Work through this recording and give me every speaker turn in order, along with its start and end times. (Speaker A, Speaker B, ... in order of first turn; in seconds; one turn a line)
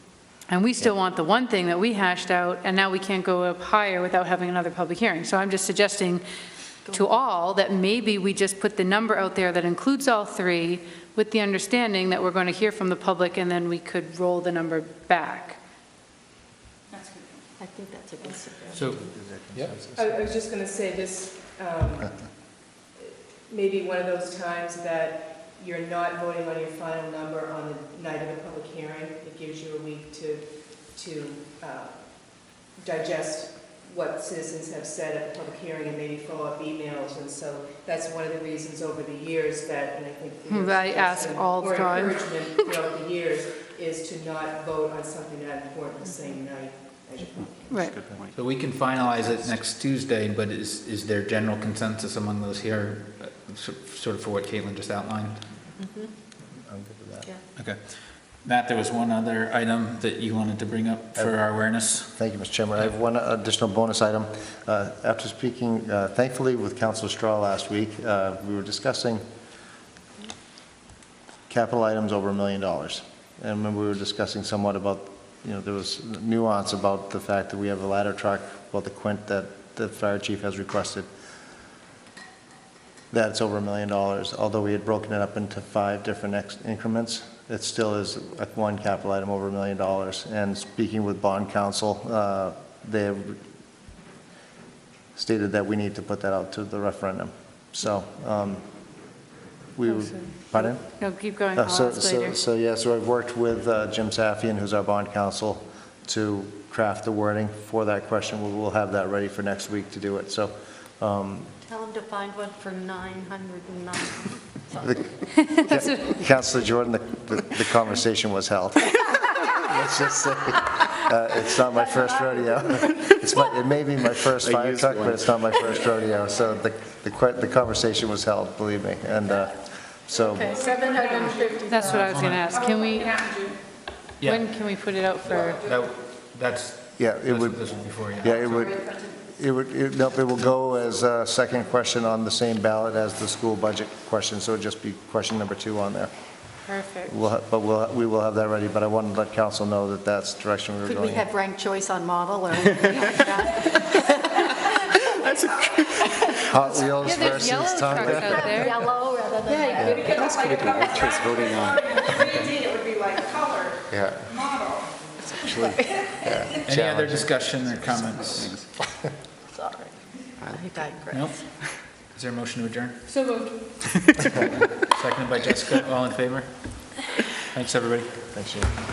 Speaker A: 0.5-6.2
Speaker A: 6.9-15.6
Speaker B: 17.6-18.9
Speaker C: 18.7-19.0
Speaker D: 18.8-20.4
Speaker E: 19.9-22.4
Speaker E: 23.0-47.9
Speaker A: 40.5-42.6
Speaker A: 47.7-48.0
Speaker C: 48.3-55.4
Speaker B: 55.8-56.1
Speaker D: 56.5-57.3
Speaker C: 57.6-62.2
Speaker D: 61.2-61.5
Speaker D: 62.0-69.2
Speaker D: 71.5-81.1
Speaker D: 83.1-93.4
Speaker D: 95.2-98.6
Speaker D: 99.8-111.5
Speaker A: 99.9-102.4
Speaker B: 111.7-115.5
Speaker D: 114.8-130.7
Speaker A: 115.5-116.0
Speaker F: 124.4-125.4
Speaker B: 130.3-131.7
Speaker A: 131.5-133.5
Speaker C: 131.8-132.5
Speaker C: 134.2-134.5
Speaker A: 134.2-135.6
Speaker C: 135.5-138.8
Speaker D: 137.0-146.1
Speaker A: 146.7-147.1
Speaker D: 147.1-151.2
Speaker B: 150.8-156.9
Speaker D: 156.4-158.7
Speaker A: 157.0-158.9
Speaker B: 158.1-160.0
Speaker D: 159.7-160.2
Speaker F: 159.8-162.0
Speaker E: 159.9-161.3
Speaker E: 161.9-163.0
Speaker C: 162.2-162.6
Speaker D: 163.9-164.5
Speaker B: 165.2-166.6
Speaker D: 165.5-167.3
Speaker C: 166.6-168.7
Speaker B: 169.5-171.8
Speaker F: 170.4-170.9
Speaker C: 171.1-173.1
Speaker C: 174.2-178.3
Speaker D: 178.3-178.8